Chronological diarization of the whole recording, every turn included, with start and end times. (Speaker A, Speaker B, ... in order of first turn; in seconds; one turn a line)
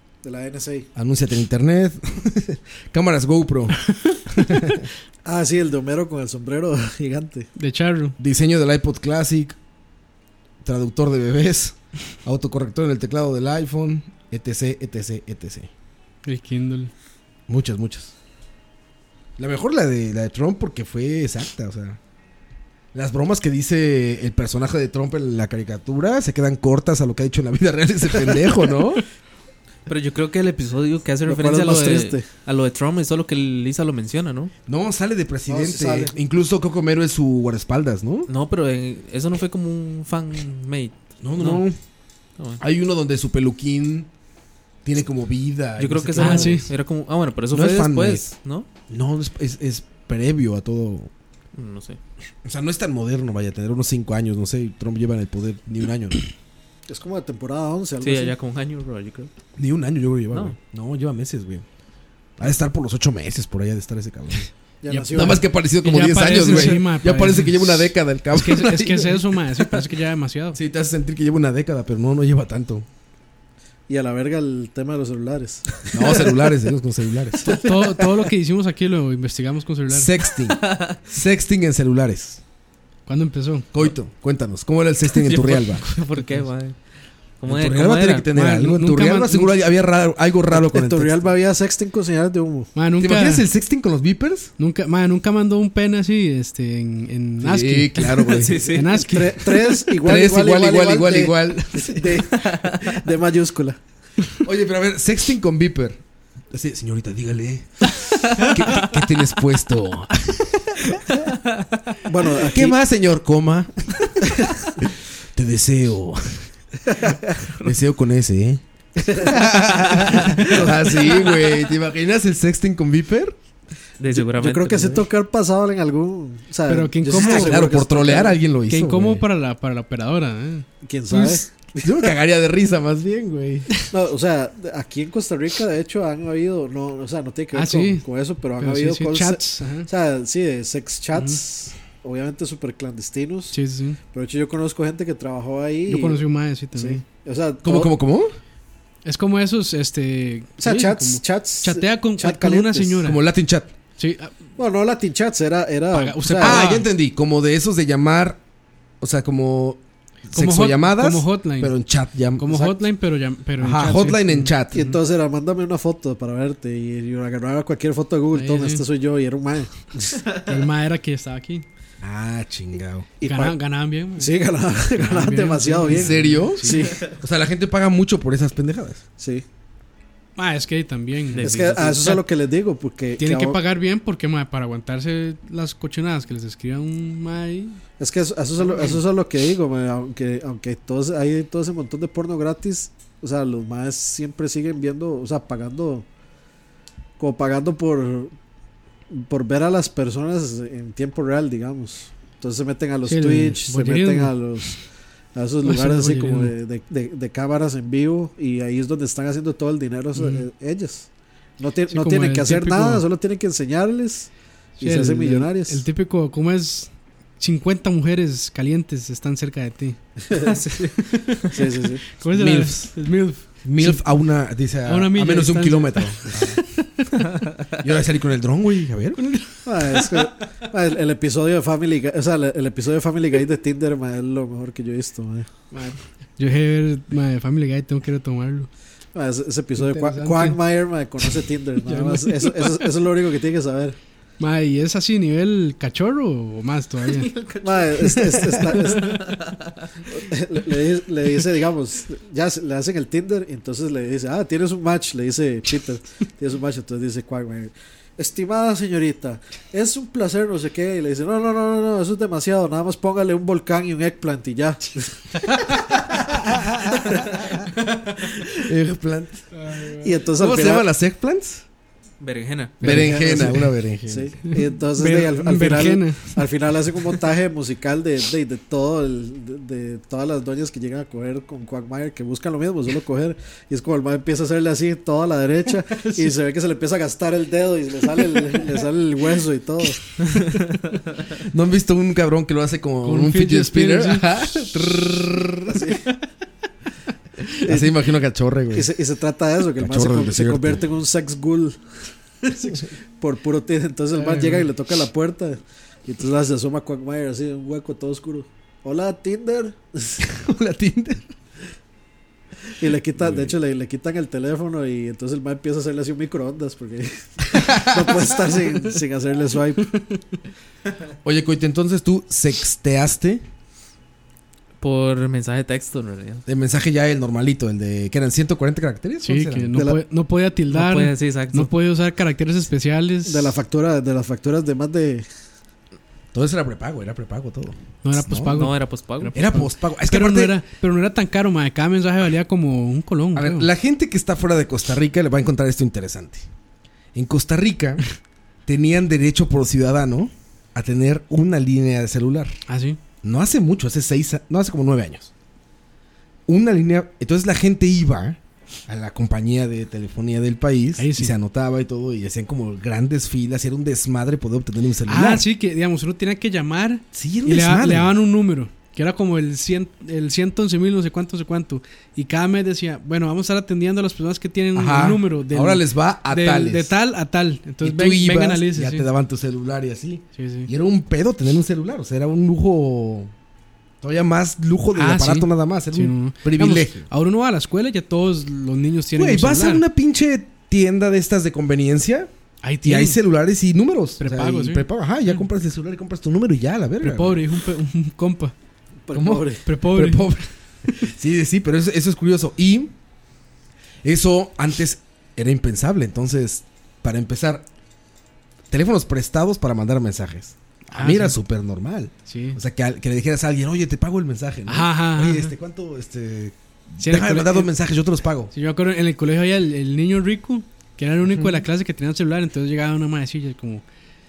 Speaker A: 0.2-0.9
Speaker B: 0.9-4.9
Speaker A: 5.2-7.5
Speaker C: 7.6-8.2
Speaker B: 8.2-9.6
Speaker B: 10.6-15.7
Speaker C: 16.2-16.9
Speaker B: 17.5-18.1
Speaker B: 19.4-22.0
Speaker B: 22.9-29.0
Speaker D: 29.9-34.5
Speaker A: 31.2-32.2
Speaker B: 34.7-38.3
Speaker A: 35.5-36.1
Speaker D: 38.3-41.6
Speaker B: 41.2-41.8
Speaker B: 42.6-44.1
Speaker B: 44.8-46.7
Speaker D: 45.8-48.7
Speaker C: 46.2-46.6
Speaker B: 47.5-48.3
Speaker B: 48.9-51.1
Speaker D: 51.5-52.0
Speaker B: 52.4-56.2
Speaker A: 56.9-58.3
Speaker D: 58.0-59.3
Speaker B: 59.6-61.6
Speaker B: 62.4-64.5
Speaker A: 64.8-65.4
Speaker C: 64.9-70.6
Speaker B: 65.1-69.9
Speaker B: 70.5-72.8
Speaker A: 73.9-76.4
Speaker B: 75.9-77.6
Speaker A: 77.4-77.8
Speaker C: 77.5-80.1
Speaker B: 79.9-82.4
Speaker D: 80.5-81.0
Speaker C: 83.1-83.7
Speaker B: 83.7-85.8
Speaker D: 85.1-86.8
Speaker D: 87.4-88.3
Speaker B: 87.5-91.3
Speaker C: 88.3-89.5
Speaker A: 90.5-92.7
Speaker C: 92.7-93.4
Speaker B: 93.0-94.5
Speaker C: 94.6-99.4
Speaker B: 97.4-98.6
Speaker D: 98.3-99.0
Speaker A: 99.0-103.8
Speaker B: 100.0-102.2
Speaker D: 102.4-102.8
Speaker B: 104.4-106.0
Speaker B: 106.5-111.0
Speaker A: 112.0-112.7
Speaker B: 112.4-116.5
Speaker A: 116.9-117.3
Speaker B: 117.6-123.4
Speaker A: 119.1-119.3
Speaker D: 124.0-125.0
Speaker A: 124.1-128.4
Speaker C: 126.7-127.7
Speaker B: 127.1-129.2
Speaker C: 128.7-131.4
Speaker A: 130.8-132.1
Speaker B: 131.8-133.7
Speaker A: 133.9-143.6
Speaker C: 137.5-138.0
Speaker C: 138.6-139.9
Speaker C: 141.1-141.4
Speaker C: 143.5-144.0
Speaker A: 144.1-146.2
Speaker C: 145.9-147.0
Speaker A: 146.7-147.9
Speaker B: 147.6-148.3
Speaker C: 149.0-153.2
Speaker A: 150.6-153.0
Speaker B: 153.0-153.7
Speaker C: 154.0-154.3
Speaker A: 154.6-156.6
Speaker C: 155.9-156.9
Speaker B: 156.4-158.4
Speaker B: 159.0-162.6
Speaker C: 160.3-161.7
Speaker C: 162.4-165.0
Speaker B: 163.6-164.8
Speaker A: 164.7-170.3
Speaker C: 168.3-168.8
Speaker C: 170.4-171.6
Speaker B: 172.0-173.1
Speaker A: 173.2-173.6
Speaker C: 173.2-174.3
Speaker A: 174.2-177.1
Speaker C: 175.0-176.8
Speaker B: 175.9-179.0
Speaker A: 179.2-179.4
Speaker C: 180.4-182.2
Speaker D: 181.3-182.2
Speaker A: 181.4-183.6
Speaker C: 183.2-187.8
Speaker A: 188.0-196.1
Speaker A: 197.2-198.3
Speaker A: 199.1-204.8
Speaker C: 203.1-204.3
Speaker A: 205.3-211.1
Speaker C: 205.6-206.5
Speaker C: 210.2-210.4
Speaker A: 211.6-215.8
Speaker C: 211.9-213.0
Speaker C: 214.8-220.0
Speaker D: 220.4-221.0
Speaker C: 221.1-221.5
Speaker A: 221.5-222.0
Speaker C: 222.2-224.0
Speaker B: 222.2-222.9
Speaker B: 223.6-226.6
Speaker C: 224.8-226.8
Speaker B: 227.8-229.2
Speaker C: 229.2-230.2
Speaker A: 229.7-235.5
Speaker C: 235.7-238.7
Speaker A: 239.1-243.9
Speaker C: 239.8-240.6
Speaker C: 241.8-242.8
Speaker C: 244.4-247.3
Speaker D: 247.1-249.6
Speaker A: 247.6-249.3
Speaker A: 250.1-265.6
Speaker B: 266.1-267.5
Speaker B: 268.5-269.4
Speaker C: 269.6-270.1
Speaker A: 270.0-270.9
Speaker B: 270.3-271.6
Speaker D: 272.2-272.8
Speaker C: 272.8-273.7
Speaker B: 272.8-274.4
Speaker A: 272.8-290.1
Speaker C: 275.0-276.4
Speaker B: 291.4-295.9
Speaker C: 293.0-294.3
Speaker A: 295.7-296.0
Speaker B: 297.6-298.9
Speaker A: 297.6-297.9
Speaker A: 298.7-301.8
Speaker B: 299.8-300.9
Speaker A: 302.6-310.2
Speaker C: 304.1-304.7
Speaker B: 310.2-311.2
Speaker A: 312.8-320.0
Speaker B: 313.1-313.6
Speaker B: 317.5-318.2
Speaker B: 321.2-323.4
Speaker D: 324.8-326.4
Speaker B: 326.5-329.7
Speaker C: 329.2-333.6
Speaker A: 329.7-330.0
Speaker D: 330.7-331.7
Speaker A: 333.2-335.2
Speaker B: 336.3-338.7
Speaker C: 338.0-343.7
Speaker D: 338.5-339.3
Speaker B: 339.3-340.6
Speaker B: 343.3-346.5
Speaker B: 347.1-348.0
Speaker B: 348.7-352.6
Speaker C: 352.7-353.0
Speaker B: 353.2-355.3
Speaker B: 356.5-365.4
Speaker C: 361.0-361.3
Speaker C: 365.1-379.1
Speaker B: 367.1-368.1
Speaker B: 374.7-376.9
Speaker B: 377.8-383.3
Speaker C: 380.3-380.7
Speaker B: 384.0-387.1
Speaker C: 384.9-389.8
Speaker B: 389.1-392.3
Speaker C: 392.6-393.2
Speaker B: 392.8-397.4
Speaker C: 394.2-394.9
Speaker C: 397.0-398.5
Speaker A: 399.1-399.6
Speaker B: 399.1-400.4
Speaker C: 399.6-400.4
Speaker B: 400.9-402.9
Speaker B: 404.0-407.6
Speaker B: 408.7-418.5
Speaker C: 410.9-411.4
Speaker C: 412.3-412.6
Speaker C: 414.7-415.5
Speaker C: 417.0-417.7
Speaker C: 418.5-423.8
Speaker B: 421.2-421.6